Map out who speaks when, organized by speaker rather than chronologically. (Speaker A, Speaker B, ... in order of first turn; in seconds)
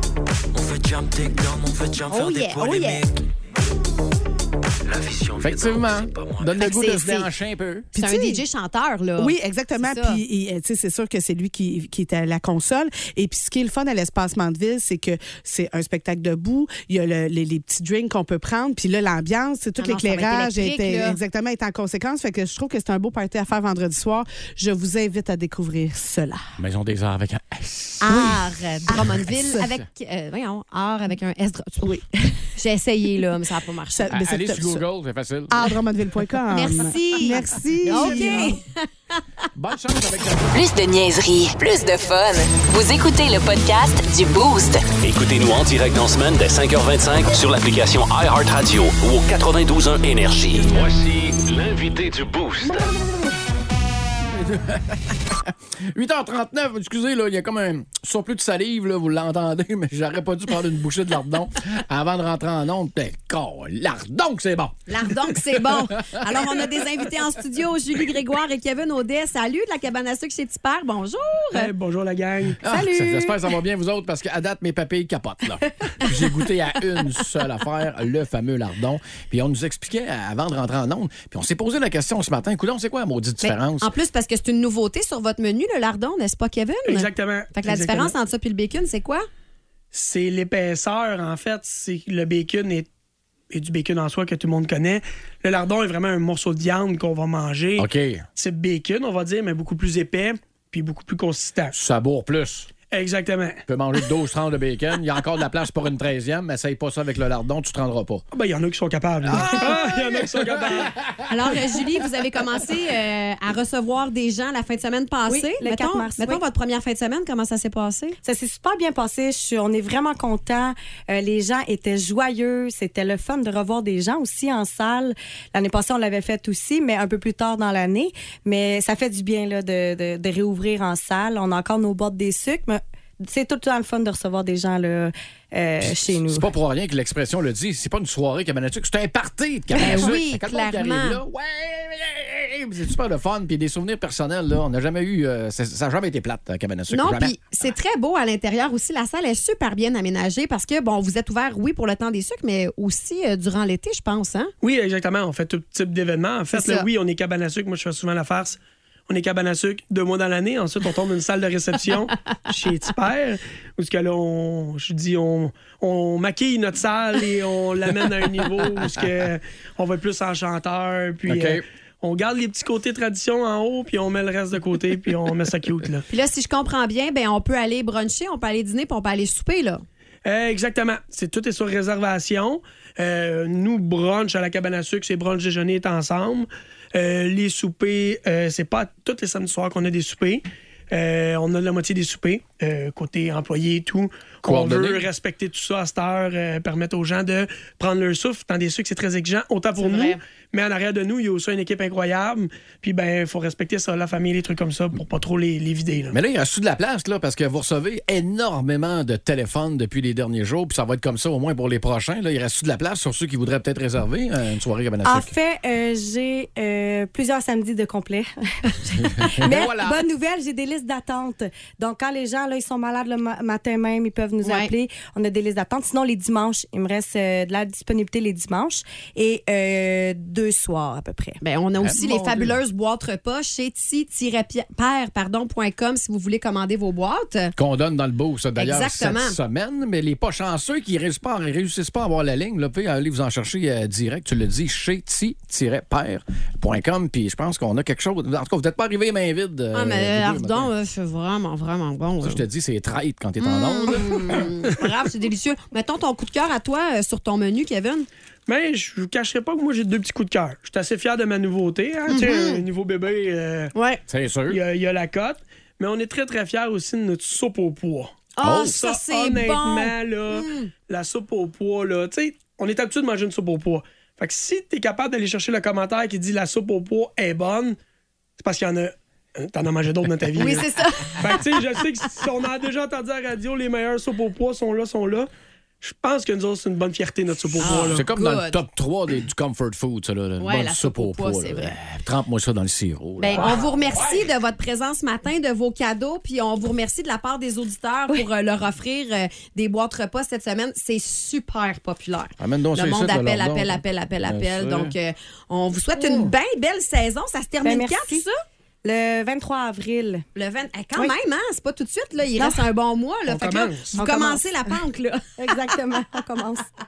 Speaker A: 0.5-3.2, 4.8-6.6
Speaker B: 2.1-3.0, 6.6-7.3, 7.9-10.2, 19.8-21.2, 28.0-34.1, 36.5-39.2, 64.9-71.7, 83.4-89.3, 111.3-118.2, 139.7-141.2, 146.9-154.5, 156.5-156.8, 176.1-179.8, 199.8-200.2, 224.4-224.7, 231.4-237.5, 238.6-239.4, 249.7-252.4, 253.4-258.1, 262.1-262.6, 263.7-264.0, 268.4-270.7, 280.3-282.1, 287.6-288.6, 290.4-291.7, 293.2-308.3, 310.3-315.8
Speaker C: 5.4-7.9, 26.6-28.3, 28.9-29.2, 34.1-35.7, 37.9-38.5, 39.5-40.6, 54.4-54.9, 55.9-66.5, 72.6-83.9, 97.8-98.2, 101.7-102.7, 103.7-108.2, 109.3-111.0, 135.8-147.4, 171.2-171.6, 194.4-195.1, 206.1-215.3, 219.2-220.0, 231.8-232.6, 237.6-250.7, 252.2-254.5, 264.1-264.6, 268.4-268.7, 287.6-293.7, 302.4-304.9
Speaker D: 7.9-8.4, 9.2-26.5, 28.1-29.7, 33.9-34.8, 35.5-38.6
Speaker E: 40.5-44.9
Speaker F: 45.0-52.9
Speaker G: 71.5-72.6, 86.8-88.1, 89.9-92.9, 93.5-101.8, 102.9-103.6, 108.3-111.0, 154.6-176.1, 180.2-206.1, 258.5-263.7, 264.5-277.8, 278.4-285.3, 285.8-288.1, 313.3-314.0
Speaker H: 72.7-73.3, 115.2-116.4, 118.2-136.5, 215.0-231.4, 307.6-308.2, 308.8-310.2, 312.4-312.6, 313.9-314.8, 315.4-316.6